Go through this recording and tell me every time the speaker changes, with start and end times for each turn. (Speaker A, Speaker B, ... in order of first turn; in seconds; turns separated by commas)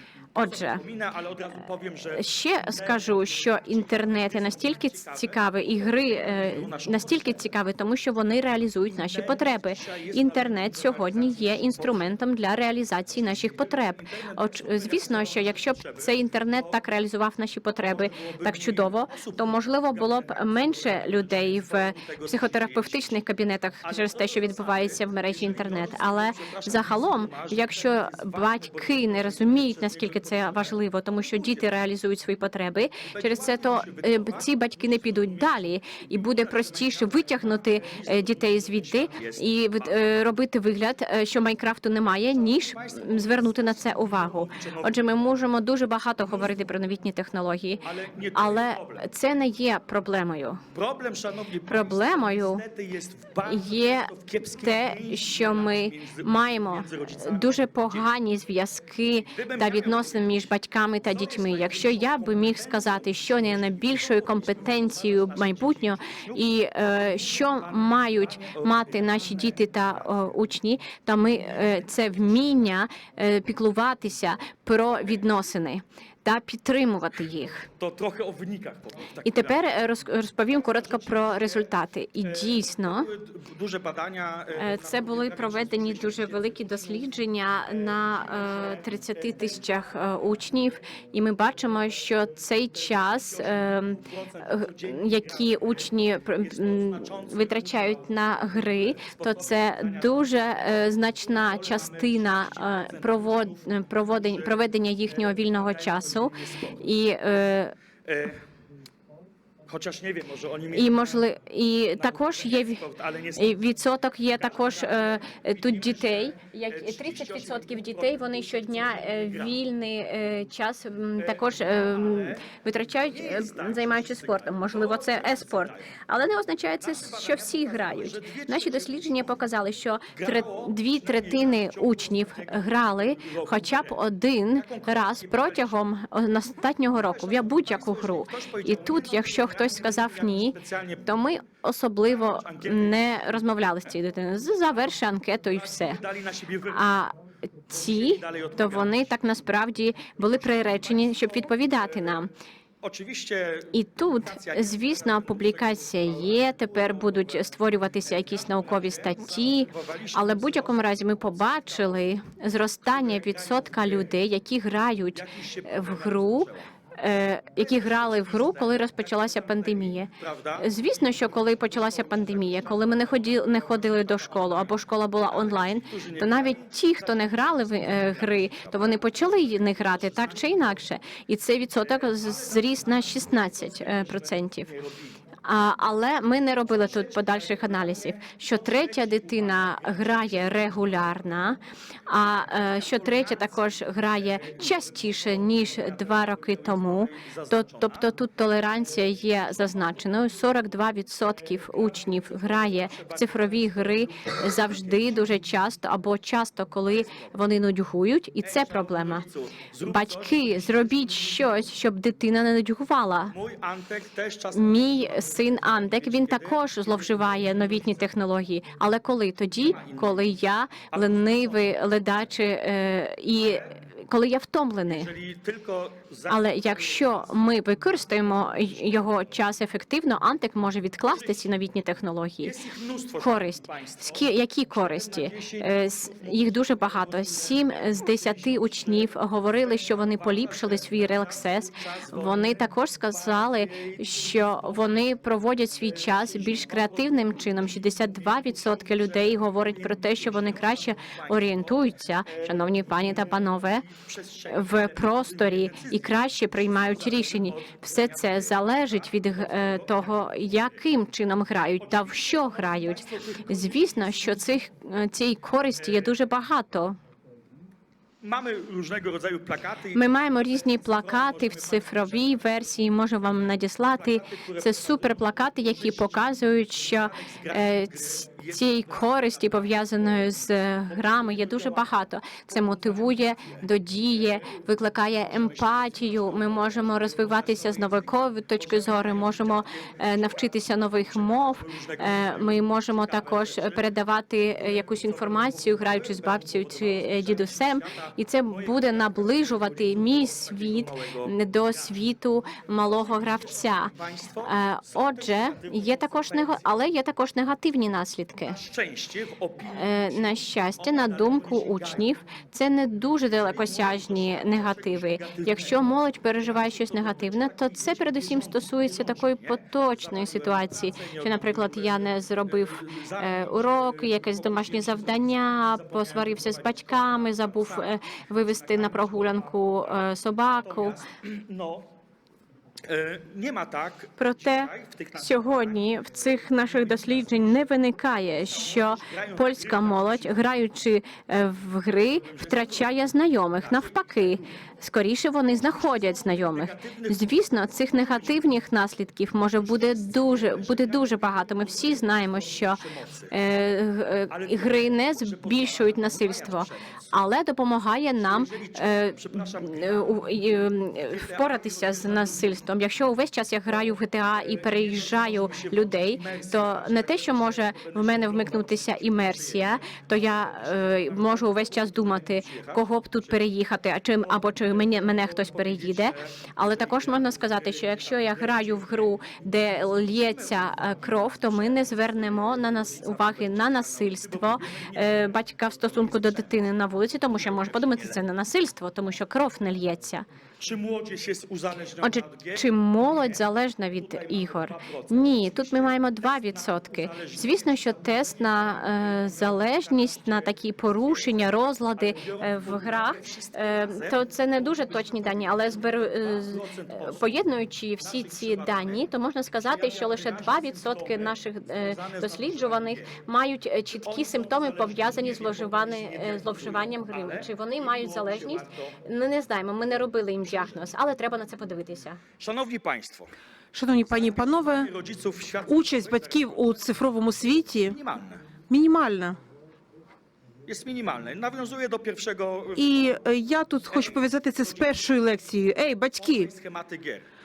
Speaker A: 0.3-0.8, Speaker B: 0.4-7.4, Speaker A: 2.1-50.6, Speaker B: 8.9-12.1, Speaker B: 13.2-16.8, Speaker B: 17.8-23.2, Speaker B: 23.8-31.8, Speaker B: 33.1-40.1, Speaker B: 42.4-45.2, Speaker B: 46.2-46.6, Speaker B: 47.9-49.1, Speaker B: 50.7-58.1, Speaker A: 51.7-52.6, Speaker A: 53.5-54.1, Speaker A: 54.6-77.7, Speaker B: 59.3-60.5, Speaker B: 61.0-70.1, Speaker B: 71.6-71.8, Speaker B: 77.8-79.6, Speaker A: 79.2-83.1, Speaker B: 80.7-81.7, Speaker B: 82.2-87.1, Speaker A: 84.5-107.7, Speaker B: 87.7-89.6, Speaker B: 93.3-100.7, Speaker B: 101.2-104.6, Speaker B: 105.1-106.8, Speaker B: 108.0-108.4, Speaker B: 109.7-111.2, Speaker A: 110.7-146.0, Speaker B: 112.0-113.6, Speaker B: 114.3-119.6, Speaker B: 121.2-122.5, Speaker B: 123.1-125.9, Speaker B: 126.8-129.3, Speaker B: 130.2-135.8, Speaker B: 136.9-141.1, Speaker B: 142.1-143.1, Speaker B: 145.6-146.9, Speaker A: 146.7-147.2, Speaker A: 147.7-152.3, Speaker B: 147.8-149.1, Speaker B: 150.7-152.2, Speaker B: 152.8-162.1, Speaker A: 153.7-184.7, Speaker B: 162.9-164.1, Speaker B: 165.1-166.6, Speaker B: 167.6-173.0, Speaker B: 174.0-180.8, Speaker B: 181.8-185.2, Speaker A: 185.4-209.2, Speaker B: 186.7-191.1, Speaker B: 192.6-198.1, Speaker B: 201.6-205.4, Speaker B: 206.9-207.4, Speaker B: 208.4-211.5, Speaker A: 209.8-213.3, Speaker B: 213.3-218.0, Speaker A: 214.5-225.1, Speaker B: 219.6-220.3, Speaker B: 220.9-221.8, Speaker B: 223.4-223.7, Speaker B: 224.9-227.4, Speaker A: 226.3-232.6, Speaker B: 228.4-229.1, Speaker B: 231.1-231.4, Speaker B: 232.4-245.0, Speaker A: 233.2-253.9, Speaker B: 245.8-260.6, Speaker A: 254.5-267.0, Speaker B: 261.8-264.4, Speaker B: 265.8-266.1, Speaker B: 268.2-272.6, Speaker A: 269.9-308.6, Speaker B: 273.8-279.9, Speaker B: 280.9-281.9, Speaker B: 282.5-283.6, Speaker B: 284.1-284.6, Speaker B: 285.2-293.9, Speaker B: 294.6-302.0, Speaker B: 302.8-306.7, Speaker B: 308.4-312.2, Speaker A: 309.7-331.0, Speaker B: 313.3-330.0, Speaker B: 330.6-331.9, Speaker B: 332.9-335.9, Speaker A: 334.2-390.3, Speaker B: 336.6-337.6, Speaker B: 338.5-340.5, Speaker B: 342.2-342.9, Speaker B: 343.6-344.4, Speaker B: 345.7-348.4, Speaker B: 349.6-352.0, Speaker B: 352.6-353.3, Speaker B: 354.3-357.1, Speaker B: 358.2-362.6, Speaker B: 364.3-373.4, Speaker B: 374.2-379.2, Speaker B: 380.0-386.7, Speaker B: 387.3-388.2, Speaker B: 390.6-407.4, Speaker A: 392.0-422.2, Speaker B: 408.0-413.1, Speaker B: 413.9-419.0, Speaker B: 422.4-423.3, Speaker C: 423.7-424.9, Speaker B: 424.1-426.5, Speaker C: 425.7-428.0, Speaker B: 427.9-428.4, Speaker C: 428.7-429.4, Speaker B: 430.7-433.1, Speaker C: 432.8-436.5, Speaker B: 433.9-435.1, Speaker B: 436.2-437.3